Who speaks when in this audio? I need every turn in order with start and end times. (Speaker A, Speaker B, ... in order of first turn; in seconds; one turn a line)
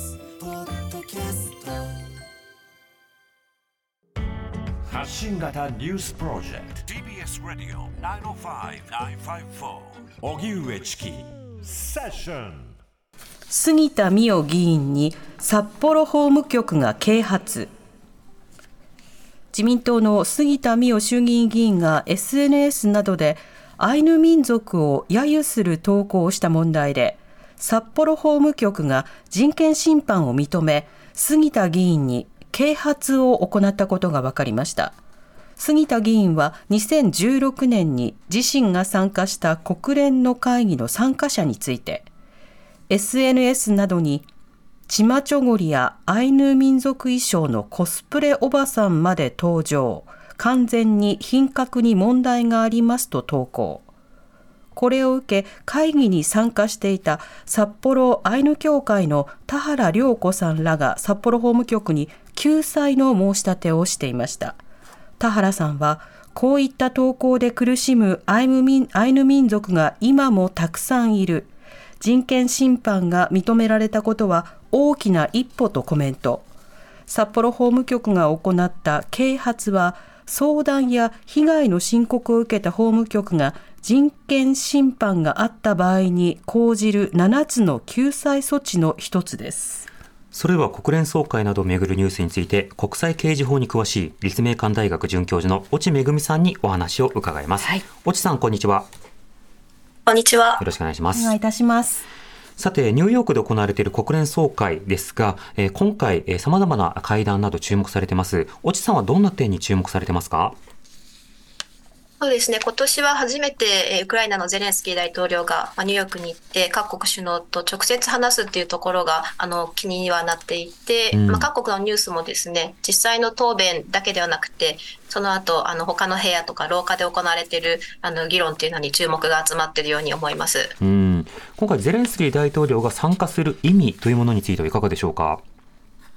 Speaker A: 0.9-1.5
Speaker A: 4.9-12.7
Speaker B: 13.5-17.7
Speaker B: 19.5-35.0
Speaker B: 35.6-42.1
Speaker B: 42.9-44.2
Speaker B: 44.9-53.9
Speaker B: 54.8-64.6
Speaker B: 65.2-76.5
Speaker B: 77.1-89.9
Speaker C: 90.3-98.9
Speaker D: 100.1-100.6
Speaker C: 100.6-101.3
Speaker B: 101.1-102.0
Speaker C: 102.6-110.6
Speaker D: 112.2-130.7
Speaker C: 121.1-121.5
Speaker C: 130.8-135.4